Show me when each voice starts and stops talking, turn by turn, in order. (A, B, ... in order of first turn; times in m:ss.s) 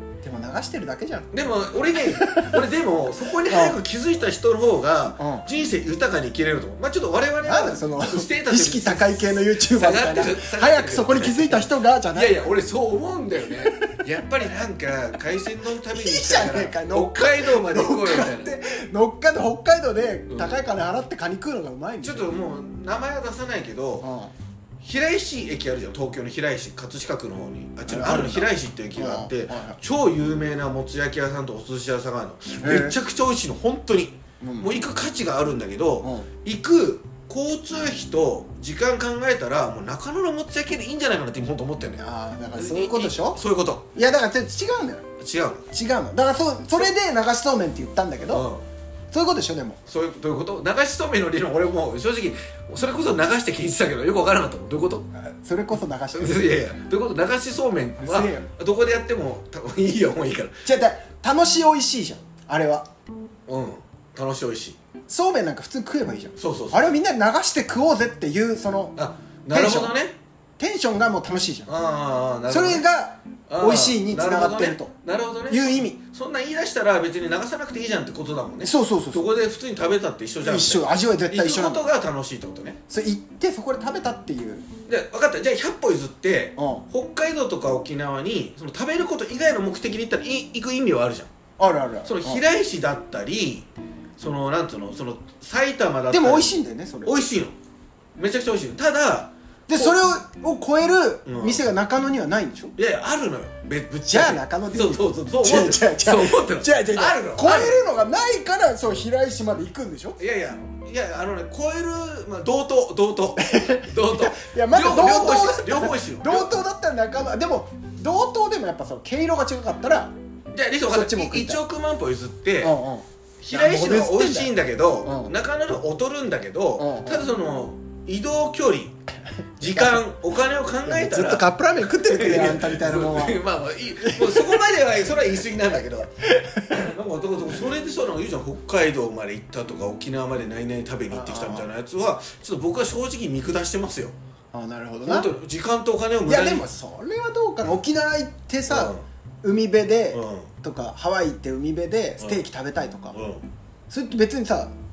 0:00.2-0:01.3 A
0:01.3-0:18.5 B
0:02.0-0:02.6 A
0:03.4-0:03.8 A
0:05.2-0:05.4 A
0:07.4-0:12.4 A
0:13.6-0:14.0 A
0:15.9-0:22.3 A
0:20.3-0:20.6 B
0:22.0-0:24.1 B
0:24.0-0:24.3 A
0:24.8-0:43.9 B
0:27.9-0:29.8 A
0:32.6-0:33.0 A
0:34.4-0:34.7 A
0:36.0-0:36.3 A
0:42.0-0:43.4 A
0:43.9-0:45.0 A
0:45.2-0:45.7 B
0:45.7-0:48.5 A
0:48.3-0:48.6 B
0:49.1-0:49.8 A
0:49.8-0:55.0 B
0:55.1-0:56.5 A
0:56.1-1:00.6 B
0:58.0-0:58.5 A
1:00.6-1:02.9 A
1:03.5-1:04.8 B
1:05.1-1:09.0 A
1:06.4-1:07.0 B
1:08.9-1:10.2 B
1:09.5-1:10.0 A
1:10.6-1:11.7 A
1:11.7-1:12.8 B
1:12.5-1:14.9 A
1:13.5-1:22.8 B
1:15.5-1:16.0 A
1:18.6-1:19.3 A
1:20.4-1:21.9 A
1:22.9-1:24.6 A
1:24.9-1:31.3 B
1:26.6-1:26.8 A
1:31.6-1:32.4 A
1:32.0-1:36.5 B
1:36.1-1:37.2 A
1:37.0-1:37.5 B
1:38.2-1:40.0 B
1:39.7-1:42.7 A
1:41.2-1:41.6 B
1:42.8-1:47.8 B
1:44.0-1:50.2 A
1:50.2-1:56.5 B
1:53.4-2:00.1 A
2:00.5-2:02.8 B
2:00.9-2:01.6 A
2:02.6-2:05.3 A
2:03.4-2:08.9 B
2:06.8-2:07.2 A
2:09.6-2:16.1 B
2:09.6-2:09.9 A
2:10.8-2:13.4 A
2:14.0-2:14.6 A
2:16.3-2:16.7 A
2:16.7-2:24.1 B
2:21.1-2:21.7 A
2:24.5-2:25.3 A
2:25.0-2:26.6 B
2:26.2-2:33.2 A
2:28.7-2:29.0 B
2:30.1-2:30.5 B
2:33.1-2:33.5 B
2:33.9-2:34.7 A